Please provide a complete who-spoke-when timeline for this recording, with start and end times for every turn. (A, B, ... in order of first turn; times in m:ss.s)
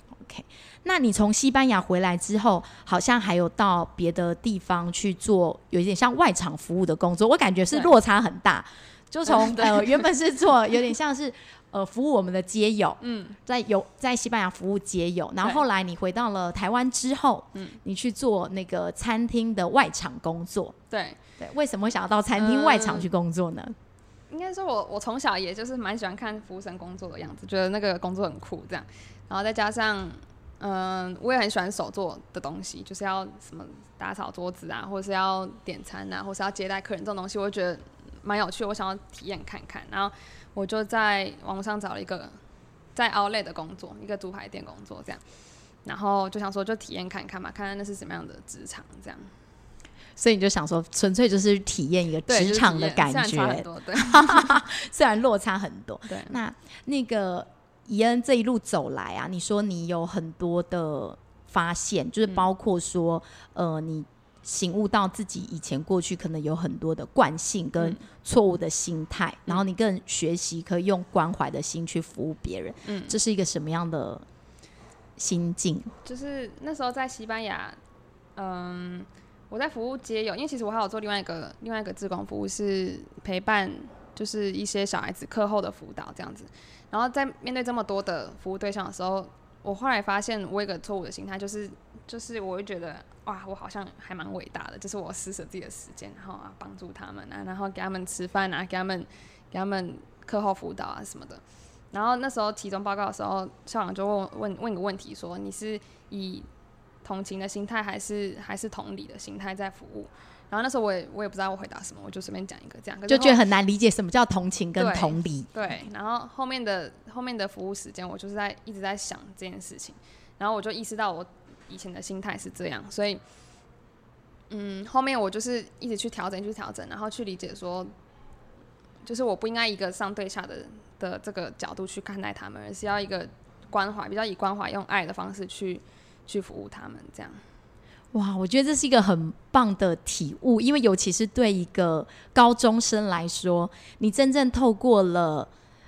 0:00.2-0:20.8 A
0:09.3-0:10.0 B
0:13.0-0:13.4 B
0:20.9-0:21.2 B
0:21.4-0:23.8 A
0:22.4-0:23.1 B
0:24.3-0:42.4 B
0:43.0-0:45.2 B
0:45.8-0:49.3 B
0:50.2-1:14.2 A
0:52.3-0:54.6 B
0:56.1-0:56.4 B
1:07.8-1:08.0 B
1:12.8-1:13.2 B
1:15.2-1:15.9 A
1:16.0-1:17.8 B
1:18.4-1:46.5 B
1:47.0-1:53.4 B
1:53.1-1:55.5 A
1:54.8-2:03.2 B
2:04.5-2:07.9 B
2:09.0-2:17.4 B
2:18.1-2:25.5 A